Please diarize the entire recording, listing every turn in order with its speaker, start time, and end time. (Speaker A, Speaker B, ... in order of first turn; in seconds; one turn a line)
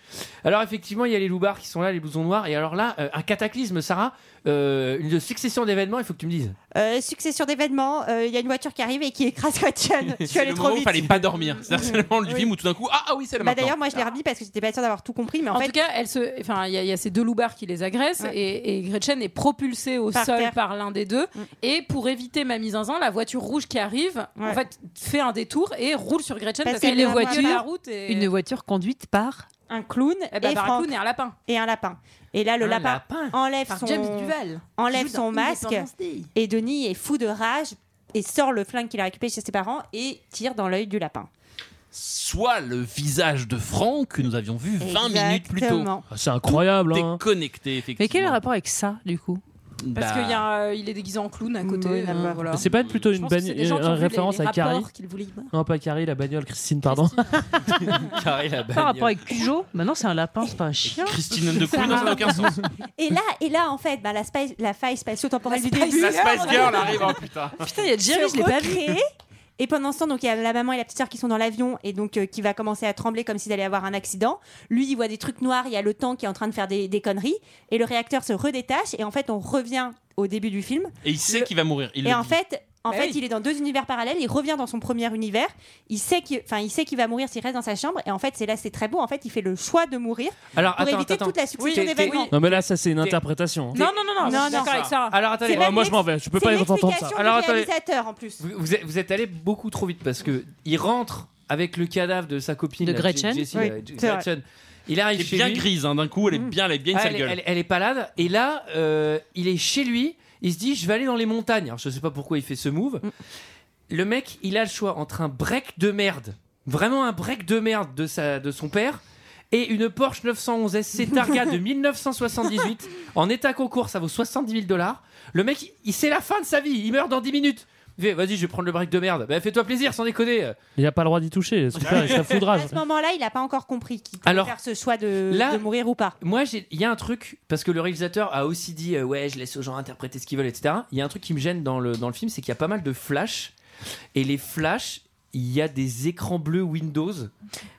Speaker A: 0.4-6.5
Speaker B: 6.7-12.5
Speaker C: 10.2-13.8
Speaker B: 13.4-15.8
Speaker D: 15.5-28.3
Speaker B: 20.1-20.6
Speaker B: 26.6-27.6
Speaker E: 26.7-29.5
Speaker B: 29.7-41.3
Speaker D: 30.3-31.4
Speaker A: 32.6-33.4
Speaker D: 33.7-36.3
Speaker C: 41.9-45.9
Speaker B: 44.8-46.0
Speaker F: 46.1-47.2
Speaker C: 46.5-48.4
Speaker E: 48.0-49.4
Speaker C: 49.8-50.4
Speaker D: 49.9-55.5
Speaker B: 51.6-52.6
Speaker F: 52.5-54.9
Speaker C: 52.6-53.0
Speaker F: 55.5-57.9
Speaker D: 56.8-57.4
Speaker A: 58.0-59.4
Speaker E: 58.7-61.2
Speaker C: 60.9-62.6
Speaker B: 61.6-67.1
Speaker D: 61.7-62.4
Speaker D: 65.5-67.2
Speaker C: 65.9-67.7
Speaker E: 67.6-69.0
Speaker B: 68.0-69.0
Speaker B: 69.6-81.5
Speaker C: 81.0-82.4
Speaker B: 82.0-92.3
Speaker D: 82.9-83.2
Speaker A: 90.5-93.2
Speaker D: 91.6-92.3
Speaker F: 92.3-93.8
Speaker D: 93.7-95.3
Speaker B: 93.8-98.4
Speaker C: 94.5-94.9
Speaker A: 95.1-95.9
Speaker F: 95.5-97.3
Speaker A: 97.1-97.7
Speaker A: 98.4-105.7
Speaker E: 102.8-103.5
Speaker B: 103.5-104.2
Speaker C: 105.2-107.4
Speaker A: 106.9-113.1
Speaker A: 113.9-119.0
Speaker A: 119.5-130.6
Speaker F: 130.8-132.8
Speaker A: 131.8-132.2
Speaker B: 131.9-136.2
Speaker A: 134.2-134.6
Speaker A: 135.3-135.7
Speaker A: 136.2-143.5
Speaker A: 144.1-147.3